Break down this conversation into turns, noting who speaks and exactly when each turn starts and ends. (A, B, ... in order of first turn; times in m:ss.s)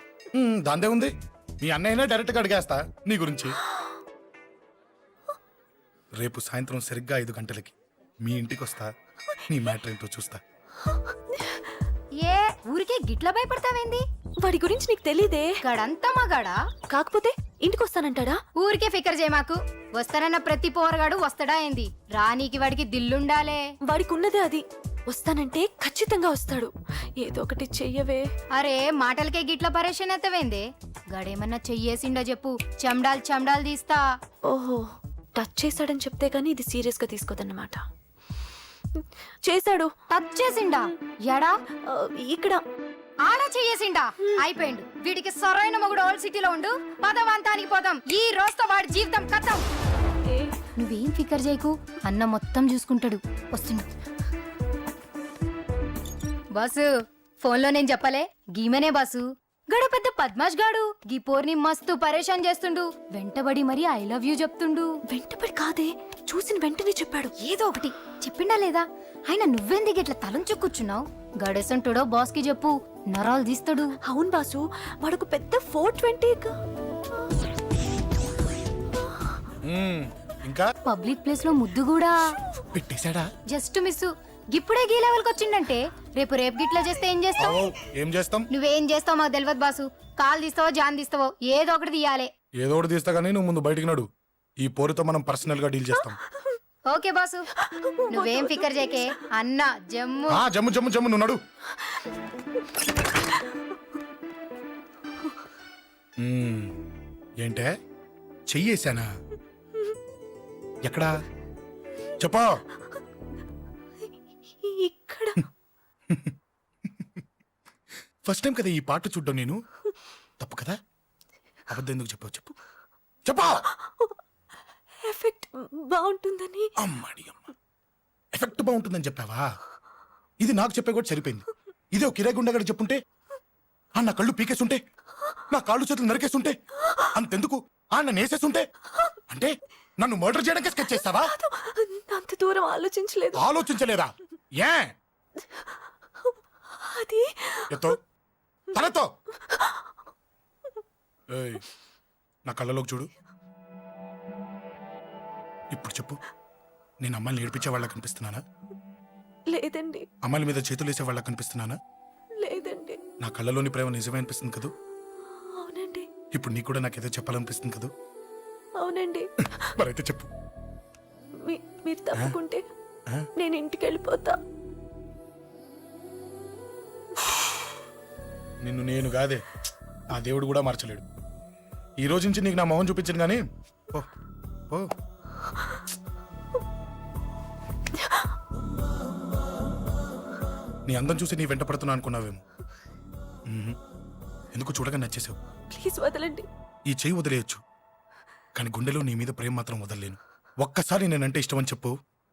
0:00.4-0:03.6 A
0:06.2-0:08.9 A
0:09.5-0:10.4 A
0:12.2-0:14.0 B
0:14.4-0:15.5 C
0:15.6-0:16.6 B
0:16.9-0:18.4 C
0:18.6-0:23.6 B
0:23.9-0:28.2 C
0:28.6-0:30.6 B
0:31.2-0:34.0 B
0:34.5-0:37.8 C
0:39.0-0:39.9 C
0:40.1-0:41.6 B
0:41.9-0:42.6 C
0:43.2-0:49.6 B
0:50.3-0:50.6 C
0:50.8-0:53.8 B
0:56.6-0:56.9 B
0:57.4-1:04.9 B
1:05.1-1:07.3 C
1:07.4-1:13.9 B
1:14.0-1:16.6 C
1:19.6-1:20.6 A
1:20.9-1:22.3 B
1:22.7-1:23.3 A
1:23.5-1:27.6 B
1:27.4-1:28.5 A
1:28.5-1:32.3 B
1:32.6-1:34.1 A
1:34.6-1:36.2 A
1:36.9-1:37.4 B
1:37.7-1:39.1 C
1:38.1-1:40.4 B
1:40.3-1:41.4 A
1:46.2-1:46.8 A
1:47.4-1:47.7 A
1:48.5-1:49.1 A
1:50.8-1:51.1 A
1:52.2-1:52.5 A
1:54.6-1:55.4 C
1:58.3-1:59.6 A
2:00.4-2:00.8 A
2:01.7-2:02.5 A
2:03.2-2:03.6 A
2:05.0-2:06.7 C
2:06.8-2:07.5 A
2:08.3-2:09.4 A
2:10.4-2:13.0 A
2:14.0-2:14.8 A
2:15.5-2:16.6 A
2:17.1-2:18.6 A
2:19.3-2:21.3 A
2:20.9-2:23.4 C
2:23.4-2:24.9 A
2:26.8-2:27.9 C
2:28.8-2:29.1 A
2:31.3-2:31.6 A
2:32.5-2:33.1 A
2:35.7-2:36.2 A
2:37.0-2:38.4 A
2:39.5-2:40.1 C
2:40.2-2:41.8 A
2:42.4-2:43.0 C
2:43.2-2:44.7 A
2:45.6-2:46.0 C
2:46.3-2:47.9 A
2:48.8-2:49.3 C
2:49.8-2:50.3 A
2:51.4-2:52.6 C
2:53.4-2:54.4 C
2:58.6-2:59.4 A
3:00.2-3:01.0 A
3:02.0-3:03.4 A
3:10.9-3:12.4 A
3:13.5-3:13.8 A
3:14.5-3:15.4 A
3:15.7-3:16.5 C
3:16.9-3:17.6 A
3:18.6-3:21.9 A